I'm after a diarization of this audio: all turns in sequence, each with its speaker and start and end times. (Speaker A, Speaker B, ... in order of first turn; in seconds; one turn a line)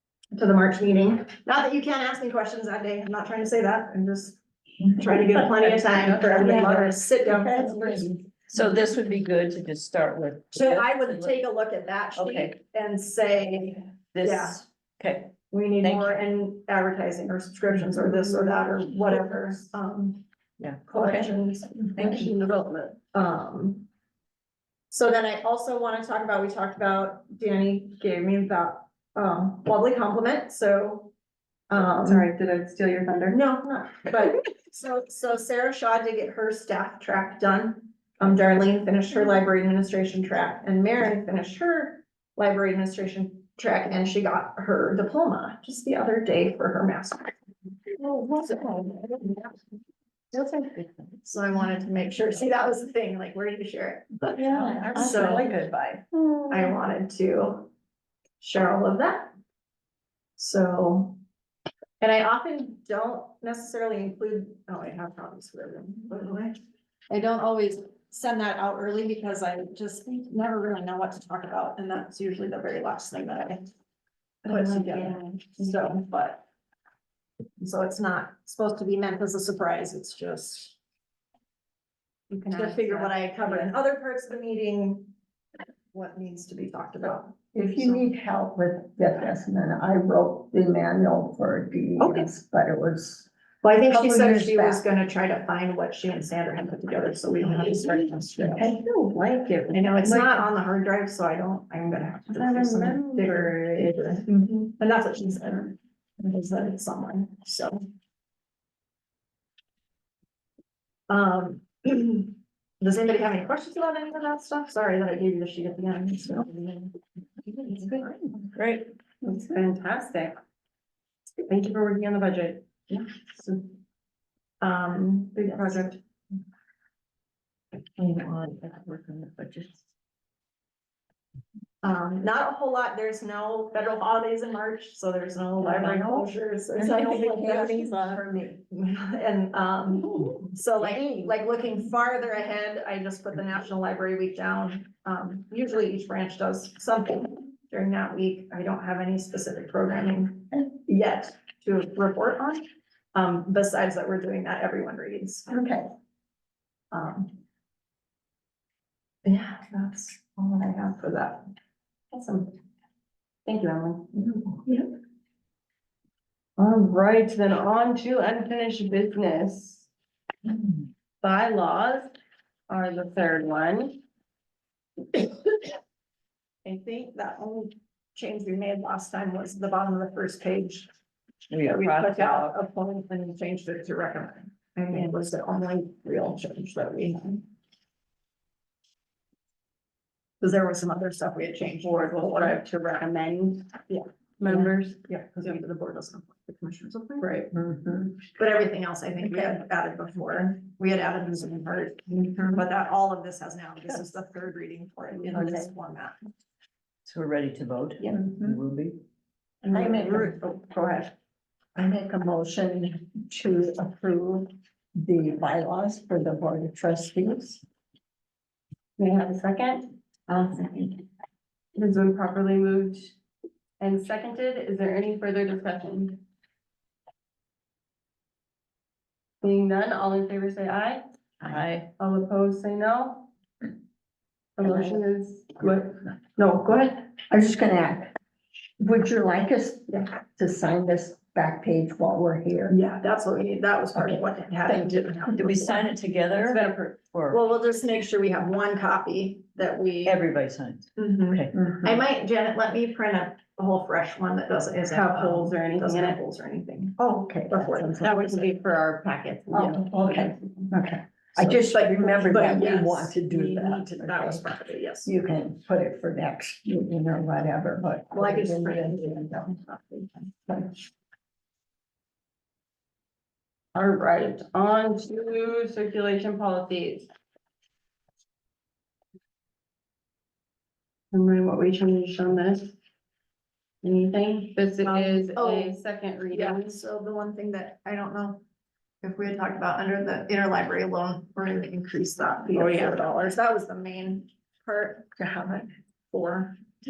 Speaker A: 0.3-8.1
Speaker B: 6.1-6.9
Speaker C: 7.2-8.2
Speaker D: 8.5-11.3
Speaker A: 10.5-14.6
Speaker D: 12.2-12.5
Speaker D: 14.1-16.2
Speaker A: 15.5-20.2
Speaker D: 20.6-21.3
Speaker A: 20.9-22.3
Speaker B: 22.0-23.0
Speaker A: 23.1-23.9
Speaker A: 24.9-31.1
Speaker A: 31.7-32.3
Speaker B: 32.0-33.4
Speaker A: 33.3-47.3
Speaker D: 48.1-48.9
Speaker C: 48.3-48.9
Speaker D: 50.3-51.2
Speaker A: 51.2-55.5
Speaker D: 54.4-56.1
Speaker C: 54.6-55.4
Speaker C: 56.1-56.7
Speaker A: 56.5-57.7
Speaker A: 58.4-59.3
Speaker A: 60.4-61.2
Speaker A: 62.0-66.6
Speaker A: 67.1-73.7
Speaker B: 74.5-76.0
Speaker A: 74.5-76.5
Speaker A: 77.6-80.8
Speaker B: 82.3-83.7
Speaker A: 82.5-85.1
Speaker A: 85.9-88.1
Speaker C: 87.5-93.3
Speaker A: 92.0-92.3
Speaker A: 93.6-98.7
Speaker C: 93.9-94.8
Speaker B: 98.5-100.5
Speaker A: 99.7-107.8
Speaker B: 102.3-103.9
Speaker A: 111.1-116.9
Speaker A: 117.5-118.5
Speaker D: 118.5-118.9
Speaker B: 119.2-120.3
Speaker B: 121.5-123.5
Speaker A: 124.6-126.0
Speaker B: 125.3-126.0
Speaker D: 128.0-129.8
Speaker A: 131.8-155.6
Speaker C: 135.6-138.6
Speaker C: 140.1-141.4
Speaker C: 155.5-155.9
Speaker A: 156.9-157.3
Speaker A: 159.2-161.5
Speaker A: 162.1-162.5
Speaker B: 163.5-164.1
Speaker A: 164.2-164.8
Speaker B: 166.6-169.9
Speaker B: 171.2-172.1
Speaker B: 172.7-174.0
Speaker A: 176.7-180.9
Speaker D: 181.5-182.5
Speaker A: 181.6-187.5
Speaker A: 190.4-192.6
Speaker B: 191.8-195.6
Speaker A: 194.4-197.3
Speaker B: 197.2-197.5
Speaker C: 197.5-198.2
Speaker A: 198.3-206.2
Speaker C: 205.3-205.7
Speaker D: 207.1-209.0
Speaker C: 208.0-208.6
Speaker A: 209.6-211.1
Speaker C: 209.7-210.4
Speaker C: 211.8-217.6
Speaker B: 219.0-219.9
Speaker A: 220.3-221.0
Speaker B: 221.8-223.1
Speaker B: 223.8-226.2
Speaker B: 229.4-231.1
Speaker D: 231.4-231.9
Speaker B: 232.0-233.3
Speaker B: 234.6-237.0
Speaker C: 234.6-234.9
Speaker C: 237.3-238.1
Speaker C: 238.8-242.8
Speaker A: 242.7-245.9
Speaker C: 244.0-245.6
Speaker D: 245.4-247.4
Speaker B: 246.4-247.0
Speaker A: 247.3-250.2
Speaker D: 250.1-251.5
Speaker A: 251.0-258.5
Speaker C: 251.5-252.0
Speaker B: 254.9-256.2
Speaker C: 257.0-258.1
Speaker B: 257.9-260.8
Speaker C: 259.5-264.5
Speaker A: 261.3-265.1
Speaker C: 265.1-269.5
Speaker A: 268.1-270.4
Speaker C: 270.5-270.8
Speaker B: 273.8-277.1
Speaker B: 281.1-282.8
Speaker B: 283.8-286.8
Speaker A: 284.8-285.8
Speaker A: 286.3-288.4
Speaker A: 289.0-296.6